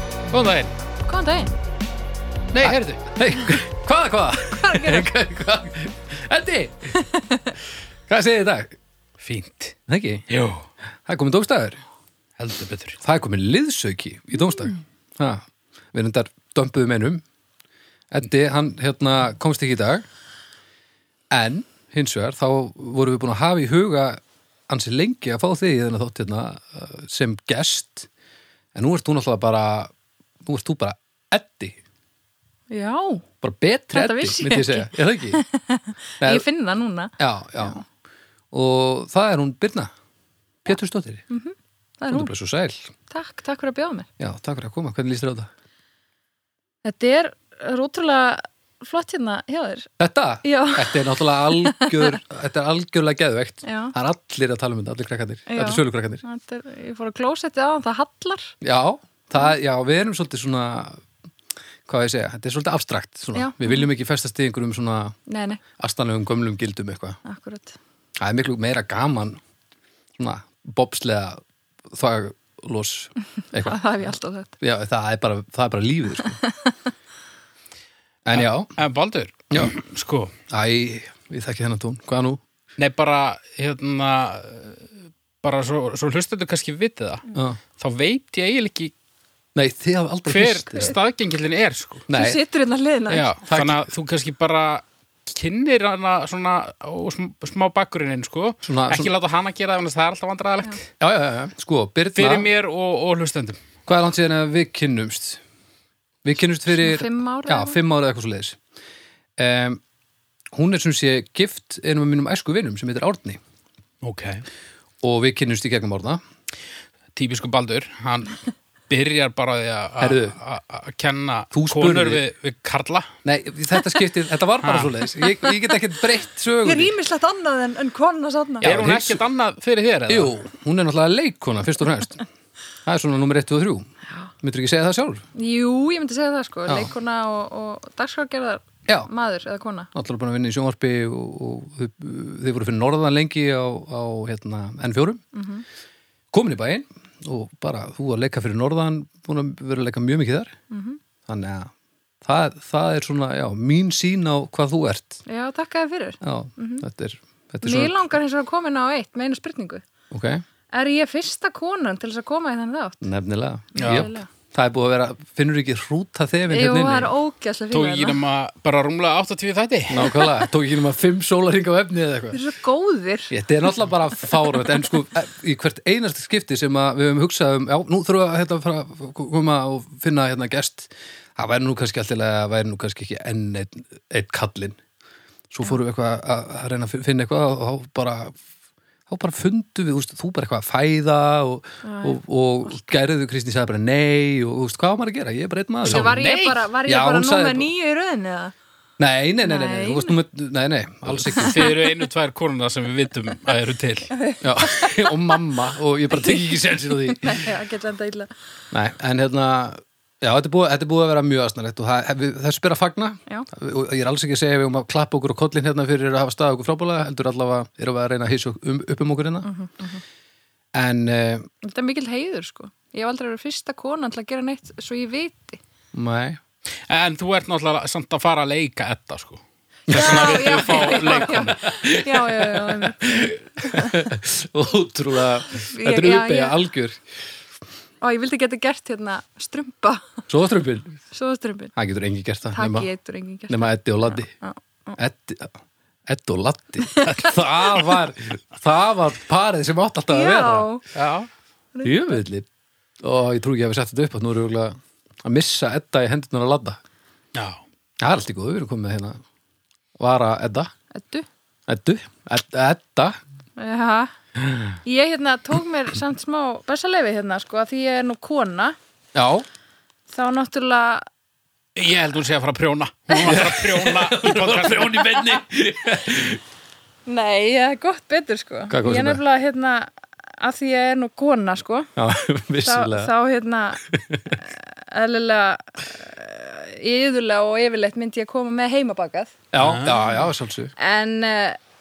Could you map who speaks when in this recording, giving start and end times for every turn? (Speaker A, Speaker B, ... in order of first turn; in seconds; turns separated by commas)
Speaker A: 0.3-0.7, Speaker B: 1.1-1.5, Speaker A: 2.5-3.0, Speaker C: 2.6-7.0, Speaker B: 4.5-5.1, Speaker C: 8.1-8.8, Speaker A: 9.2-9.8, Speaker C: 9.9-10.3, Speaker A: 10.3-10.7, Speaker C: 11.1-11.8, Speaker A: 12.4-13.0, Speaker C: 13.0-17.2, Speaker C: 18.1-20.1, Speaker C: 21.3-28.1, Speaker C: 28.8-29.9, Speaker C: 30.4-31.8, Speaker B: 32.7-33.2, Speaker C: 33.4-35.4, Speaker B: 33.9-37.8, Speaker C: 36.2-36.5, Speaker C: 37.2-37.8, Speaker C: 38.5-39.9, Speaker C: 40.6-41.2, Speaker B: 41.3-42.3, Speaker C: 42.1-42.9, Speaker B: 43.1-44.1, Speaker C: 44.2-45.5, Speaker B: 46.8-49.9, Speaker C: 50.0-56.2, Speaker B: 50.4-52.1, Speaker B: 53.6-53.9, Speaker B: 55.5-58.5, Speaker C: 58.6-61.0, Speaker C: 61.9-65.2, Speaker B: 63.3-63.9, Speaker B: 65.3-65.6, Speaker C: 65.8-67.2, Speaker B: 67.2-67.8, Speaker C: 68.2-69.4, Speaker C: 70.2-73.8, Speaker B: 73.6-74.5, Speaker C: 74.6-76.4, Speaker B: 76.4-76.7, Speaker C: 78.2-78.7, Speaker A: 78.3-80.3, Speaker C: 80.5-82.4, Speaker A: 82.8-84.9, Speaker A: 85.4-87.3, Speaker C: 87.3-87.6, Speaker A: 87.8-88.9, Speaker C: 89.5-91.0, Speaker A: 90.3-92.0, Speaker C: 92.1-92.4, Speaker B: 92.1-93.3, Speaker A: 93.1-100.8, Speaker C: 93.5-93.9, Speaker C: 98.6-99.1, Speaker C: 101.0-102.5, Speaker A: 102.1-103.6, Speaker C: 103.9-105.4, Speaker C: 106.2-108.6, Speaker B: 106.7-107.8, Speaker C: 109.4-109.8, Speaker C: 110.5-113.4, Speaker A: 114.0-114.4, Speaker C: 115.0-116.2, Speaker A: 117.1-123.1, Speaker C: 120.0-120.4, Speaker C: 121.5-122.2, Speaker C: 123.2-126.9, Speaker A: 124.6-124.9, Speaker B: 126.6-128.7, Speaker C: 128.6-129.2, Speaker A: 128.6-130.3, Speaker C: 130.1-132.2, Speaker C: 132.8-133.9, Speaker C: 134.4-135.2, Speaker B: 135.3-139.9, Speaker C: 136.7-136.9, Speaker C: 139.9-145.2, Speaker B: 145.3-145.6, Speaker C: 146.3-150.6, Speaker B: 150.7-151.0, Speaker C: 151.3-151.7, Speaker C: 152.2-155.2, Speaker B: 155.2-156.8, Speaker C: 156.2-158.0, Speaker B: 157.6-159.8, Speaker C: 160.1-160.4, Speaker B: 160.7-163.0, Speaker C: 163.0-167.1, Speaker B: 163.8-164.3, Speaker A: 163.8-164.1, Speaker B: 166.5-168.2, Speaker A: 167.7-170.1, Speaker C: 169.9-172.4, Speaker B: 172.3-173.3, Speaker C: 173.3-184.8, Speaker C: 185.5-188.4, Speaker C: 189.1-196.2, Speaker B: 191.8-192.9, Speaker A: 195.8-196.7, Speaker B: 195.8-198.5, Speaker C: 196.8-197.7, Speaker C: 199.0-201.7, Speaker B: 199.4-200.2, Speaker A: 201.1-204.1, Speaker B: 204.1-205.1, Speaker C: 204.4-207.5, Speaker B: 207.2-208.3, Speaker C: 208.7-219.5, Speaker B: 219.4-220.0, Speaker C: 220.7-221.5, Speaker B: 221.6-225.6, Speaker C: 225.9-226.4, Speaker A: 226.9-231.6, Speaker C: 229.9-237.0, Speaker B: 229.9-233.0, Speaker B: 233.6-233.9, Speaker B: 235.6-236.6, Speaker B: 238.0-240.1, Speaker C: 240.3-241.0, Speaker B: 241.1-241.7, Speaker C: 241.8-242.9, Speaker B: 242.5-245.0, Speaker C: 243.5-244.3, Speaker C: 245.0-250.7, Speaker B: 246.8-247.3, Speaker B: 250.1-250.8, Speaker A: 250.9-251.3, Speaker B: 251.8-252.2, Speaker C: 251.8-252.5, Speaker C: 253.0-256.8, Speaker A: 257.3-257.6, Speaker C: 258.0-259.2, Speaker C: 260.0-260.7, Speaker B: 260.9-261.2, Speaker C: 261.7-263.2, Speaker B: 263.6-264.1, Speaker B: 264.8-268.8, Speaker C: 269.1-269.4, Speaker B: 270.1-271.1, Speaker A: 271.8-275.1, Speaker C: 273.1-276.4, Speaker B: 277.1-281.9, Speaker C: 278.7-279.2, Speaker C: 281.9-283.1, Speaker B: 282.6-283.8, Speaker C: 283.9-284.3, Speaker B: 284.4-289.3, Speaker C: 289.5-290.7, Speaker A: 289.6-290.0, Speaker B: 290.8-291.6